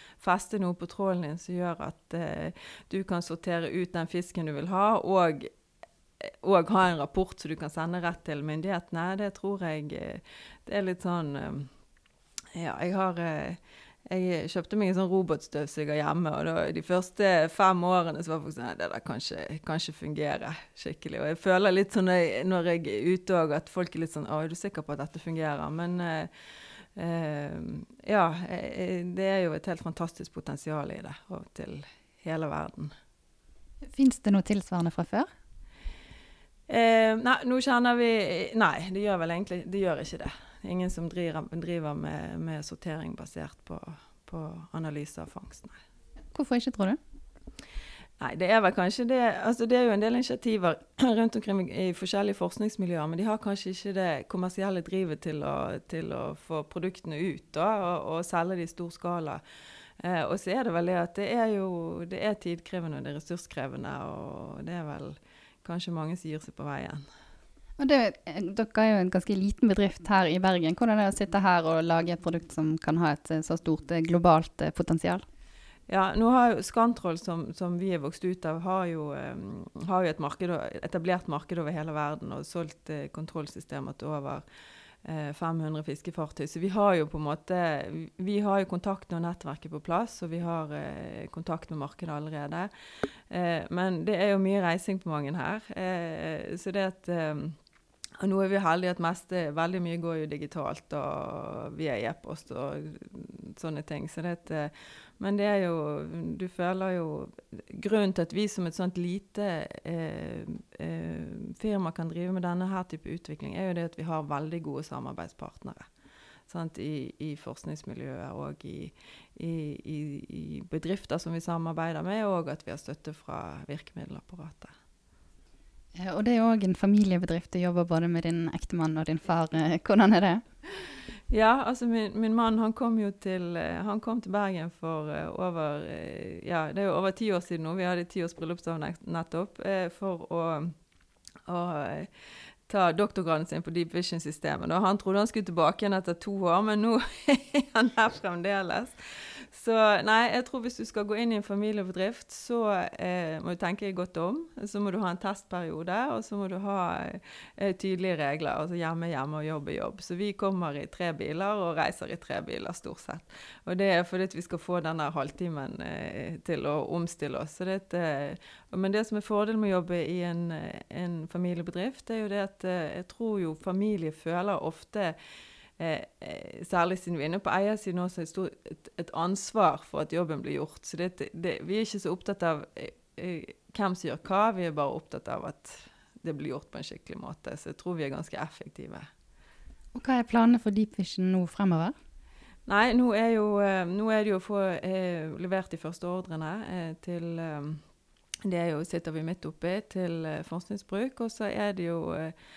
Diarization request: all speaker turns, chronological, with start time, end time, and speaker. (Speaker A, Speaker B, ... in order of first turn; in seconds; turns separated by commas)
Speaker A: 0.2-5.5, Speaker A: 6.4-11.7, Speaker A: 12.6-26.3, Speaker A: 27.0-32.9, Speaker B: 33.8-35.3, Speaker A: 36.7-45.8, Speaker B: 46.3-47.0, Speaker A: 48.2-59.4, Speaker A: 60.0-67.1, Speaker B: 67.8-75.2, Speaker A: 75.9-84.5, Speaker A: 85.0-97.6, Speaker A: 98.2-115.9, Speaker A: 116.5-124.7, Speaker B: 126.0-130.4, Speaker A: 131.3-140.7, Speaker A: 141.5-142.1, Speaker A: 142.7-175.2, Speaker A: 175.8-189.1, Speaker B: 189.9-191.9, Speaker A: 192.7-197.8, Speaker A: 198.4-202.3